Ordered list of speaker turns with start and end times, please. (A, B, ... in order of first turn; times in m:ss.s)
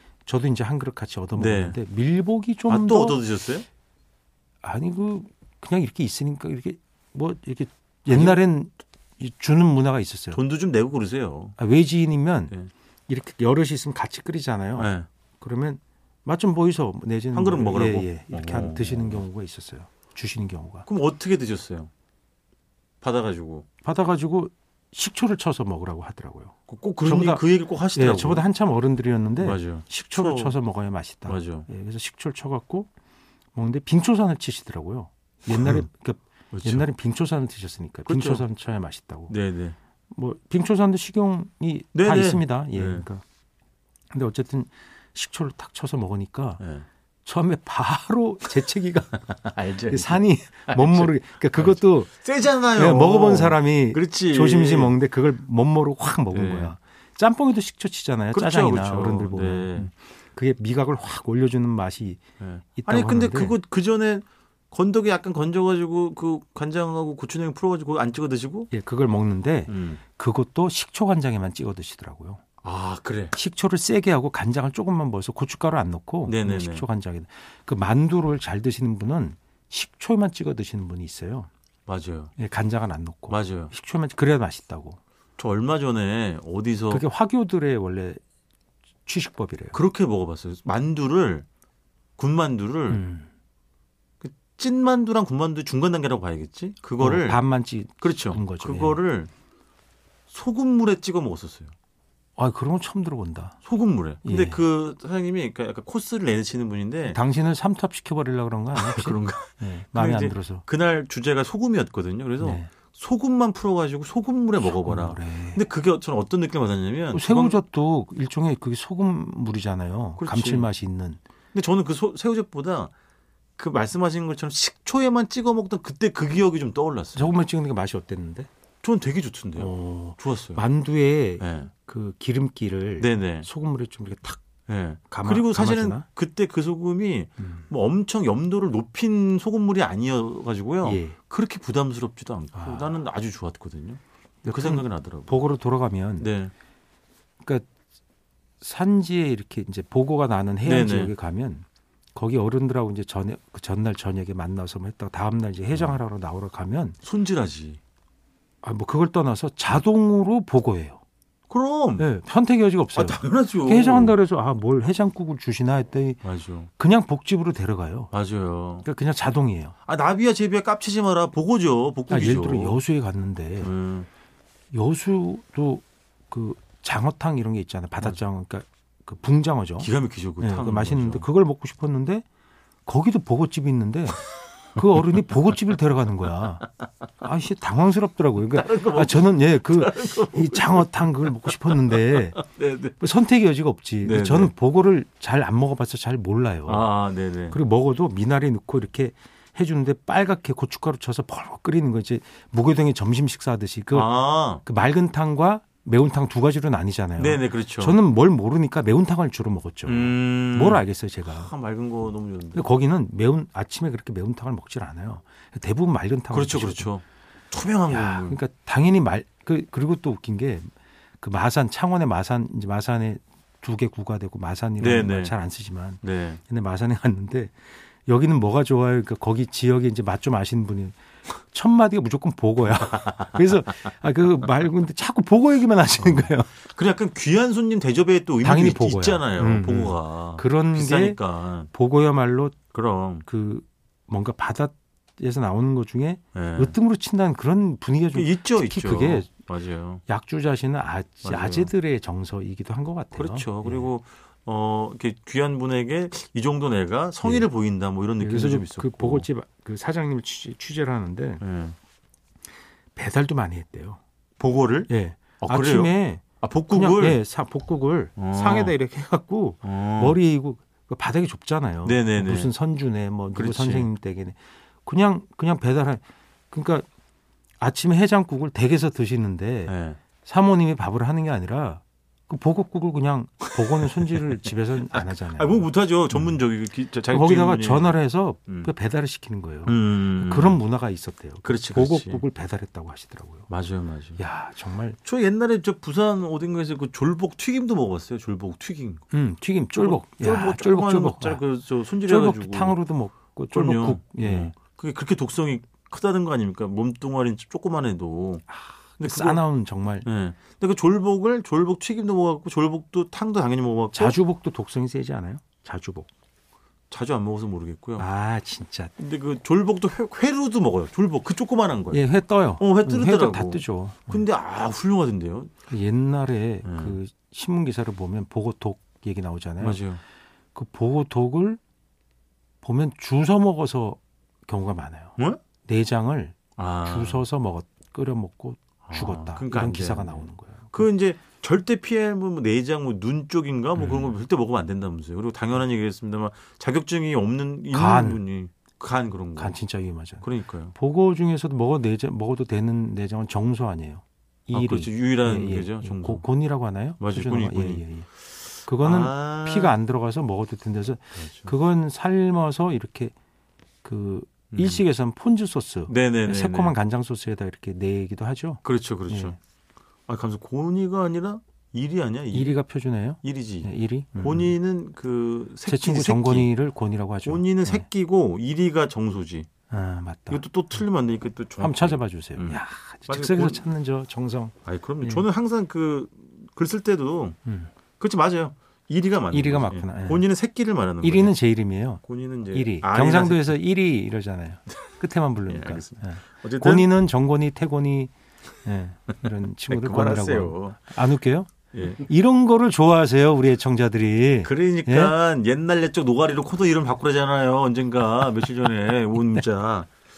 0:00.3-0:03.2 A
0:01.4-0:01.8 B
0:02.7-0:03.7 B
0:04.6-0:10.4 A
0:08.1-0:08.4 B
0:10.3-0:11.6 B
0:11.6-0:12.6 A
0:13.1-0:20.9 A
0:14.8-0:15.1 B
0:17.3-0:19.2 B
0:20.9-0:21.9 B
0:23.0-0:23.7 B
0:23.8-0:27.4 A
0:26.7-0:28.5 B
0:28.0-0:32.9 A
0:29.4-0:30.6 B
0:31.3-0:31.7 B
0:33.6-0:39.3 A
0:35.5-0:35.8 B
0:36.5-0:36.9 B
0:38.1-0:38.4 B
0:39.3-0:39.8 B
0:40.1-0:43.2 A
0:41.9-0:43.1 B
0:44.1-0:46.6 A
0:46.6-0:46.9 B
0:47.2-0:49.3 A
0:49.3-0:55.0 B
0:49.9-0:52.1 A
0:52.7-1:02.2 A
0:56.3-0:56.7 B
0:58.3-0:59.9 B
1:02.4-1:08.7 B
1:02.8-1:03.6 A
1:08.7-1:12.4 A
1:09.7-1:10.0 B
1:12.6-1:13.4 B
1:13.3-1:21.5 A
1:16.3-1:16.9 B
1:21.9-1:22.3 B
1:22.4-1:25.0 A
1:23.3-1:23.7 B
1:25.4-1:27.0 B
1:26.9-1:28.2 A
1:29.1-1:29.8 A
1:29.7-1:31.4 B
1:32.2-1:33.0 B
1:32.9-1:33.3 A
1:34.2-1:37.4 B
1:37.0-1:39.0 A
1:38.0-1:39.3 B
1:40.3-1:41.7 B
1:42.4-1:43.6 A
1:43.6-1:47.2 B
1:44.2-1:44.6 A
1:47.1-1:50.6 A
1:48.7-1:57.6 B
1:52.4-1:52.7 A
1:54.6-1:55.6 A
1:57.1-2:01.2 A
2:00.2-2:00.7 B
2:01.5-2:02.9 B
2:03.6-2:07.3 B
2:07.2-2:08.5 A
2:08.8-2:10.6 B
2:09.6-2:14.4 A
2:11.4-2:11.7 B
2:13.0-2:13.5 B
2:14.7-2:25.4 B
2:15.1-2:16.0 A
2:20.8-2:21.2 A
2:22.5-2:23.0 A
2:24.4-2:26.3 A
2:26.2-2:26.5 B
2:27.4-2:27.7 A
2:28.6-2:37.0 A
2:30.6-2:31.1 B
2:35.7-2:36.0 B
2:37.0-2:37.8 B
2:38.6-2:41.0 A
2:41.5-2:42.1 B
2:42.0-2:48.1 A
2:43.0-2:44.2 B
2:46.2-2:46.7 B
2:48.1-2:48.9 B
2:48.8-2:49.8 A
2:49.9-2:52.8 B
2:52.1-2:53.7 A
2:53.6-2:54.1 B
2:54.7-3:02.2 A
2:59.8-3:01.3 B
3:02.9-3:06.7 A
3:07.2-3:12.4 A
3:08.5-3:10.9 B
3:11.7-3:13.0 B
3:13.0-3:16.9 A
3:14.0-3:14.5 B
3:16.7-3:17.6 B
3:17.5-3:31.5 A
3:23.9-3:24.6 B
3:27.2-3:28.0 B
3:29.8-3:32.7 B
3:32.6-3:36.9 A
3:36.3-3:38.4 B
3:37.9-3:56.5 A
3:44.8-3:45.4 B
3:46.0-3:46.4 B
3:52.7-3:53.4 B
3:56.0-4:01.7 B
3:58.4-4:02.6 A
4:02.7-4:03.2 B
4:03.2-4:09.3 A
4:06.3-4:06.8 B
4:08.1-4:10.0 B
4:10.1-4:13.9 A
4:11.2-4:11.7 B
4:13.2-4:19.3 B
4:17.2-4:17.5 A
4:18.2-4:21.4 A
4:21.4-4:21.8 B
4:23.0-4:24.0 A
4:24.4-4:27.2 B
4:24.9-4:36.9 A
4:28.2-4:28.8 B
4:29.6-4:30.2 B
4:31.8-4:32.5 B
4:33.3-4:33.9 B
4:37.6-4:46.4 A
4:39.7-4:40.0 B
4:43.8-4:44.2 B
4:44.9-4:48.7 B
4:47.1-4:53.5 A
4:49.7-4:50.6 B
4:51.4-4:52.2 B
4:53.5-4:54.2 B
4:54.2-4:55.0 A
4:55.0-4:59.0 B
4:59.1-5:01.4 A
4:59.7-5:02.8 B
5:02.0-5:04.6 A
5:03.5-5:08.5 B
5:08.5-5:10.1 A
5:09.0-5:09.4 B
5:10.0-5:14.2 B
5:13.9-5:16.1 A
5:16.9-5:18.1 B
5:18.0-5:18.9 A
5:19.0-5:22.1 B
5:21.9-5:24.2 A
5:22.6-5:25.5 B
5:25.7-5:29.8 A
5:26.6-5:27.0 B
5:29.6-5:30.0 B
5:30.6-5:31.6 A
5:32.6-5:40.9 A
5:36.6-5:37.2 B
5:38.8-5:49.6 B
5:43.8-5:44.1 A
5:47.7-5:48.2 A
5:49.4-5:58.1 A
5:50.2-5:50.8 B
5:54.5-5:56.3 B
5:57.0-5:57.8 B
5:58.6-6:03.1 A
5:58.8-5:59.8 B
6:01.2-6:01.5 B
6:03.8-6:09.4 A
6:04.5-6:04.8 B
6:05.9-6:06.8 B
6:08.6-6:09.4 B
6:10.1-6:12.6 B
6:12.3-6:14.6 A
6:13.2-6:16.5 B
6:15.6-6:17.9 A
6:17.2-6:19.5 B
6:19.7-6:20.4 A
6:20.3-6:23.6 B
6:21.6-6:25.2 A
6:24.6-6:27.4 B
6:27.5-6:27.7 A
6:28.0-6:31.4 B
6:29.3-6:30.3 A
6:31.0-6:38.1 A
6:32.0-6:33.6 B
6:35.5-6:36.9 B
6:38.6-6:45.2 A
6:39.7-6:40.8 B
6:41.7-6:42.0 B
6:44.4-6:49.9 B